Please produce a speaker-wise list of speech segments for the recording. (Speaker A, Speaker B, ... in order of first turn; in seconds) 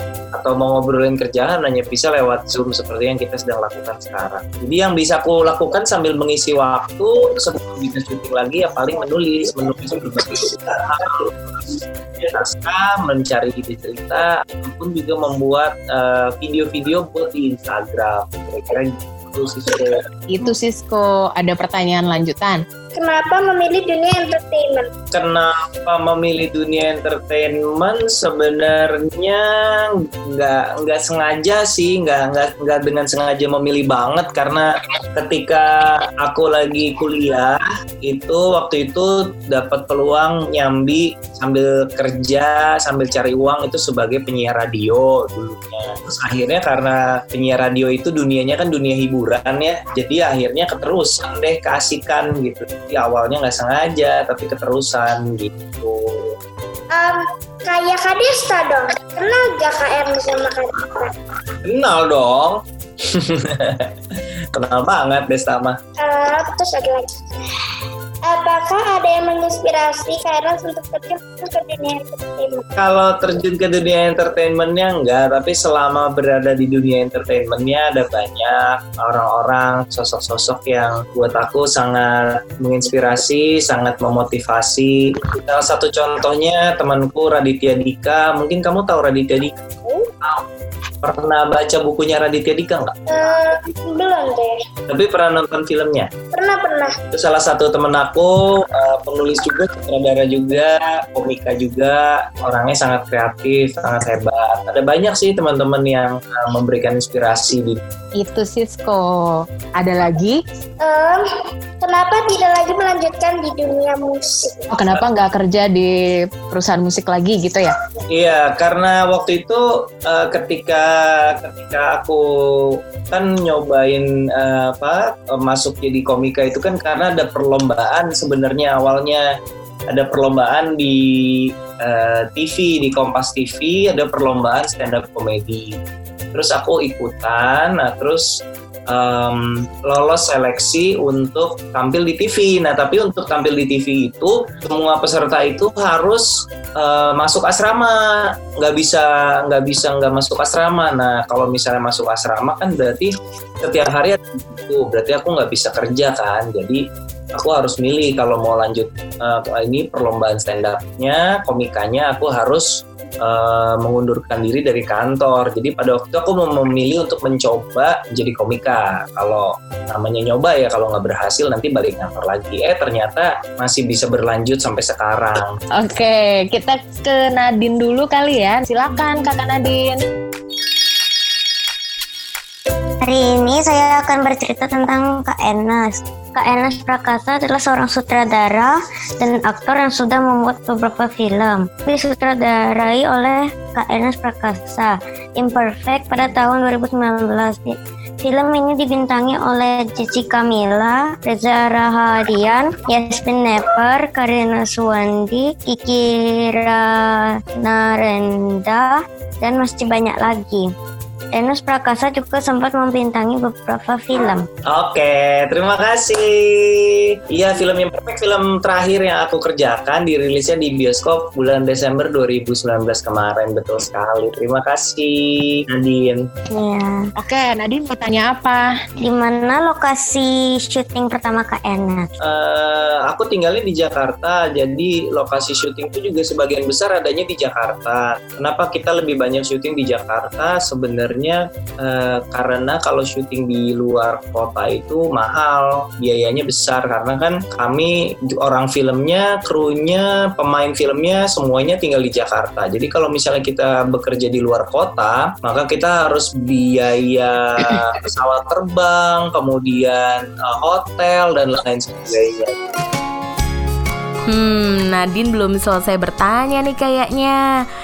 Speaker A: 0.3-19.9, 25.1-35.7, 36.2-56.3, 61.6-62.6, 63.1-63.9, 64.5-65.8, 72.8-89.6, 91.0-93.0, 94.9-96.1, 97.1-107.8, 118.1-129.2, 129.9-135.8, 136.3-138.3, 138.9-146.3, 146.8-156.8, 157.3-162.7, 163.2-175.6, 214.7-226.2, 232.2-262.6
Speaker B: 20.3-22.6, 108.2-110.4, 114.7-117.7, 175.8-180.0, 227.2-228.7
Speaker C: 22.9-24.9, 56.9-61.1, 66.0-67.1, 68.3-72.6, 93.1-94.5, 96.3-96.9, 110.8-111.2, 111.8-114.7
Speaker D: 183.1-188.7, 189.2-194.9, 195.4-197.7, 198.3-206.0, 207.7-208.8, 209.4-210.7, 211.4-214.4, 229.2-232.1
Speaker E: 264.3-267.4